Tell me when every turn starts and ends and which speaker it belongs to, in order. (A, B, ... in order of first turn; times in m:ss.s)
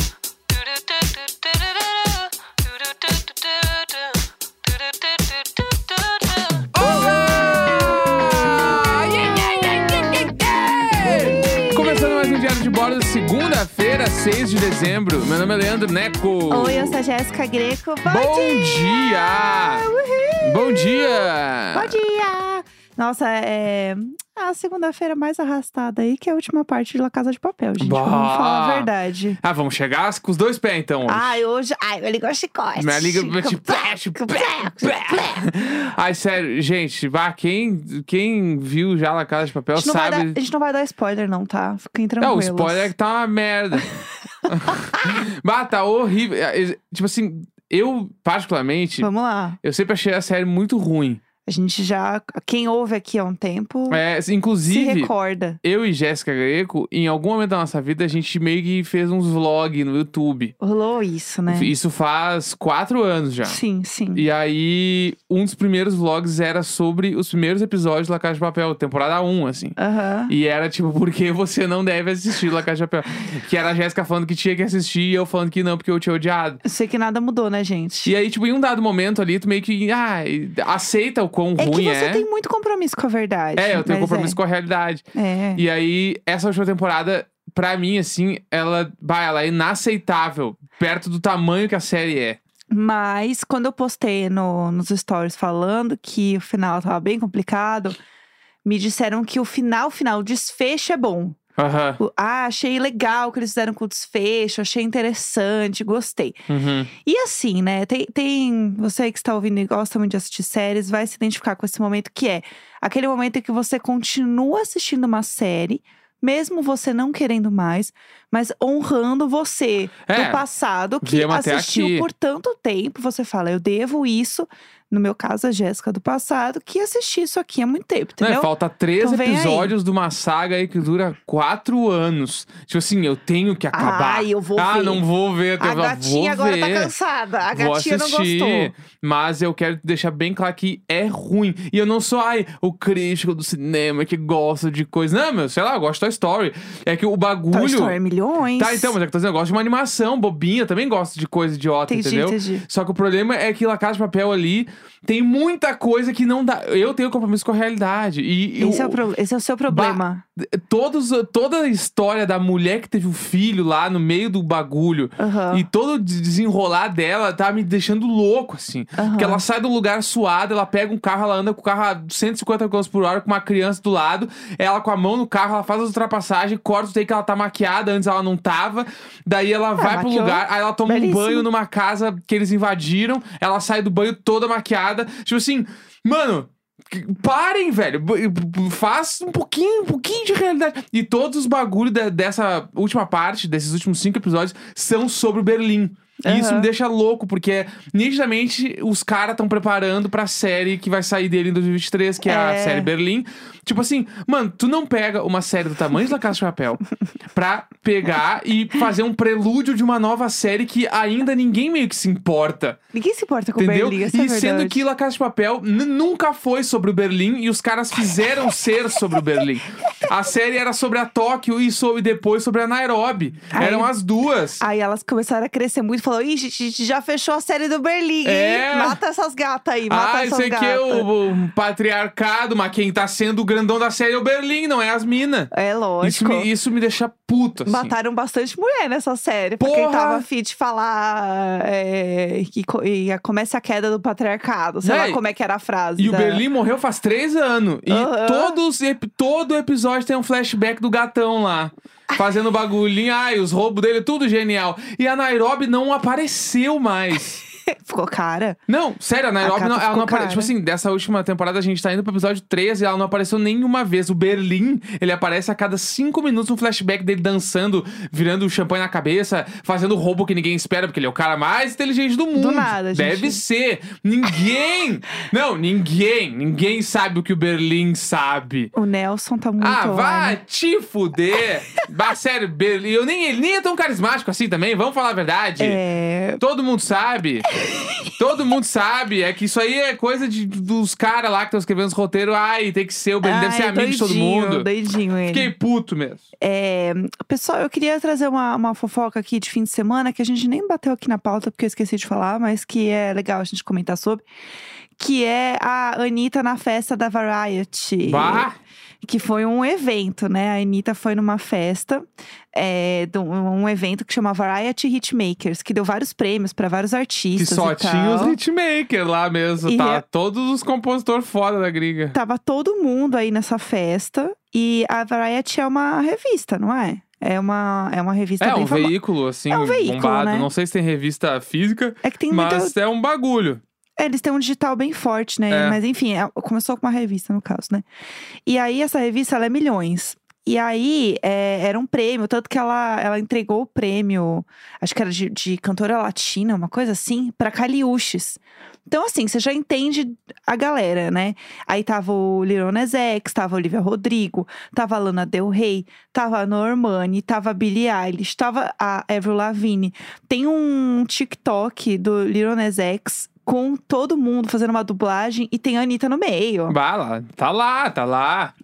0:00.9-0:03.9 A
0:06.7-0:17.0 A
0:11.4-0:11.7 B
0:16.5-0:29.4 B
0:18.0-0:19.9 A
0:20.4-0:21.9 A
0:27.8-0:28.9 A
0:29.4-0:31.4 A
0:31.0-0:35.4 B
0:32.8-0:40.4 A
0:39.8-0:42.9 B
0:42.2-0:43.9 A
0:44.5-0:49.1 A
0:49.0-0:49.6 B
0:49.6-0:51.2 A
0:51.4-0:54.0 B
0:53.9-0:55.1 A
0:54.6-0:55.6 B
0:55.6-1:00.5 A
1:00.6-1:01.7 B
1:01.5-1:03.6 A
1:03.4-1:04.2 B
1:04.1-1:09.7 A
1:09.8-1:10.3 B
1:10.3-1:16.6 A
1:16.6-1:18.1 B
1:18.0-1:22.2 A
1:21.6-1:24.4 B
1:23.6-1:25.0 A
1:25.1-1:25.6 B
1:25.6-1:32.4 A
1:32.7-1:38.0 B
1:38.6-1:41.4 B
1:41.6-1:42.0 A
1:42.0-1:46.4 B
1:46.5-1:46.9 A
1:47.0-2:09.7 B
2:00.1-2:00.4 A
2:01.0-2:02.1 A
2:08.2-2:16.9 A
2:13.7-2:15.0 B
2:15.6-2:18.7 B
2:17.5-2:28.0 A
2:27.5-2:29.0 B
2:28.6-2:39.0 A
2:31.9-2:32.6 B
2:38.6-2:40.2 B
2:39.7-3:26.8 A
2:45.2-2:45.6 B
2:49.0-2:49.4 B
2:59.8-3:01.5 B
3:16.2-3:16.7 B
3:22.2-3:22.9 B
3:27.3-3:32.8 A
3:32.9-3:34.8 B
3:33.6-3:44.6 A
3:39.1-3:39.4 B
3:43.5-3:43.9 B
3:44.6-3:51.1 B
3:48.2-3:49.0 A
3:49.9-3:57.9 A
3:55.5-3:56.5 B
3:57.6-4:06.4 B
3:59.6-4:00.2 A
4:04.8-4:05.2 A
4:06.0-4:17.4 A
4:07.9-4:08.6 B
4:17.6-4:18.6 B
4:18.7-4:38.7 A
4:19.4-4:20.5 B
4:32.3-4:33.4 B
4:38.7-4:40.4 B
4:39.6-4:45.8 A
4:45.6-4:46.4 B
4:46.4-4:47.5 A
4:47.5-4:48.0 B
4:48.2-4:54.7 A
4:53.2-4:55.5 B
4:55.3-4:56.2 A
4:56.4-5:04.2 B
5:05.0-5:08.5 B
5:08.0-5:08.6 A
5:09.0-5:18.4 B
5:17.4-5:22.2 A
5:19.6-5:20.0 B
5:22.1-5:28.9 B
5:28.4-5:33.6 A
5:29.5-5:30.5 B
5:32.0-5:32.7 B
5:34.0-5:37.8 B
5:35.5-5:35.8 A
5:38.4-6:06.8 B
6:06.7-6:08.5 A